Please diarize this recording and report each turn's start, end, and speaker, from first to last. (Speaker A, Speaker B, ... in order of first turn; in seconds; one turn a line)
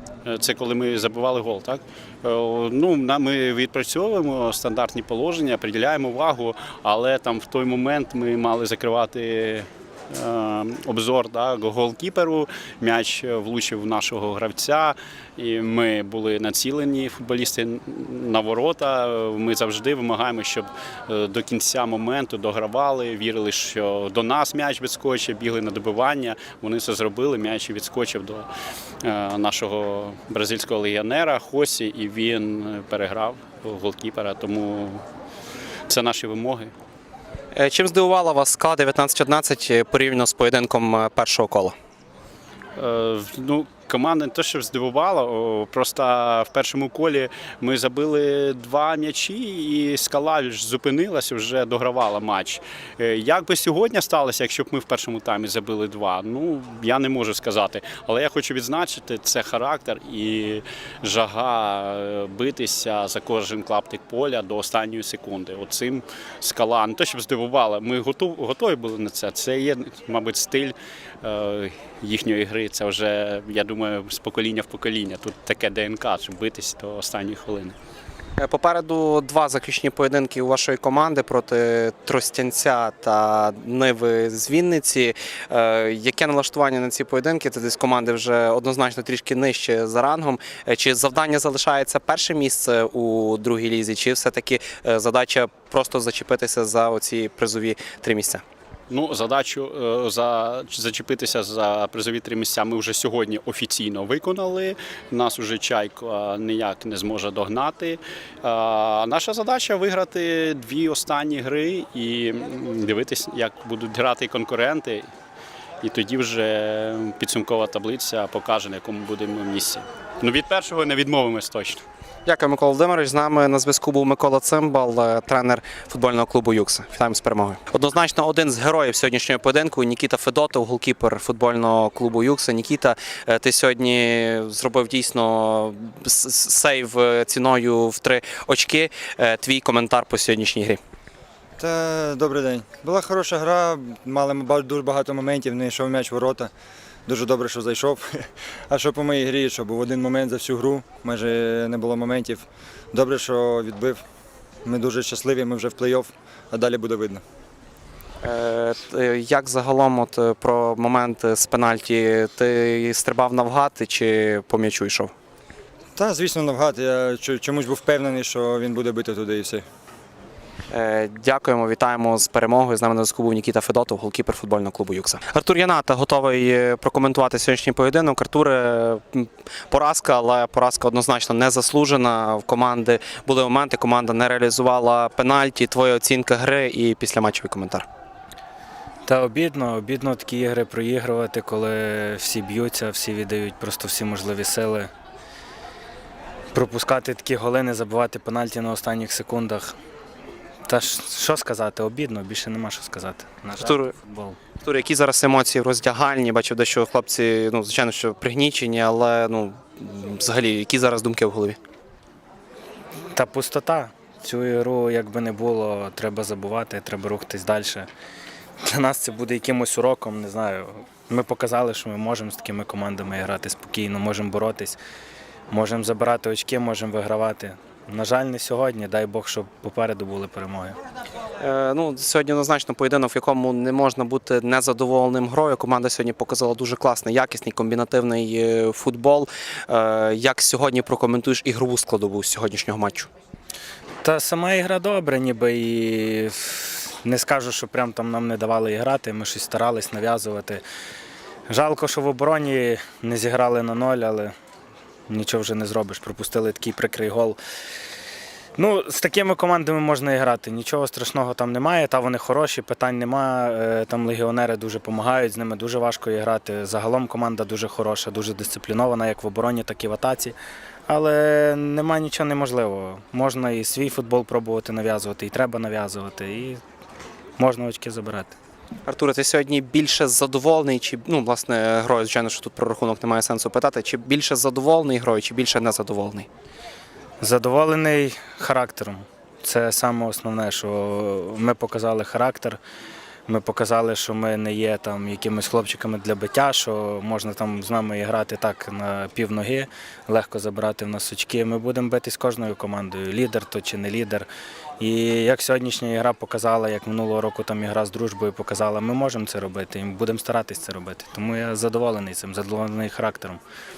Speaker A: 0.2-28.4
Speaker A: 29.0-35.0
Speaker A: 35.9-36.7
Speaker B: 37.5-41.7
Speaker A: 42.8-77.7
Speaker B: 78.4-98.4
Speaker A: 98.9-115.0
Speaker A: 115.8-121.8
Speaker B: 122.2-140.8
Speaker C: 141.6-146.5
Speaker C: 147.1-154.0
Speaker C: 154.6-157.2
Speaker B: 158.2-165.1
Speaker C: 165.9-169.6
Speaker B: 170.7-187.8
Speaker D: 189.1-194.9
Speaker D: 196.5-199.7
Speaker D: 200.7-204.4
Speaker B: 203.6-203.9
Speaker B: 204.6-211.6
Speaker D: 213.1-217.9
Speaker D: 218.6-224.8
Speaker D: 225.5-230.8
Speaker B: 231.4-243.1
Speaker D: 244.0-250.6
Speaker D: 251.5-254.3
Speaker D: 255.1-257.4
Speaker D: 258.6-270.3
Speaker D: 270.9-276.6
Speaker D: 277.4-278.4
Speaker B: 278.9-286.3
Speaker D: 287.2-292.6
Speaker D: 293.3-304.3
Speaker D: 304.8-313.4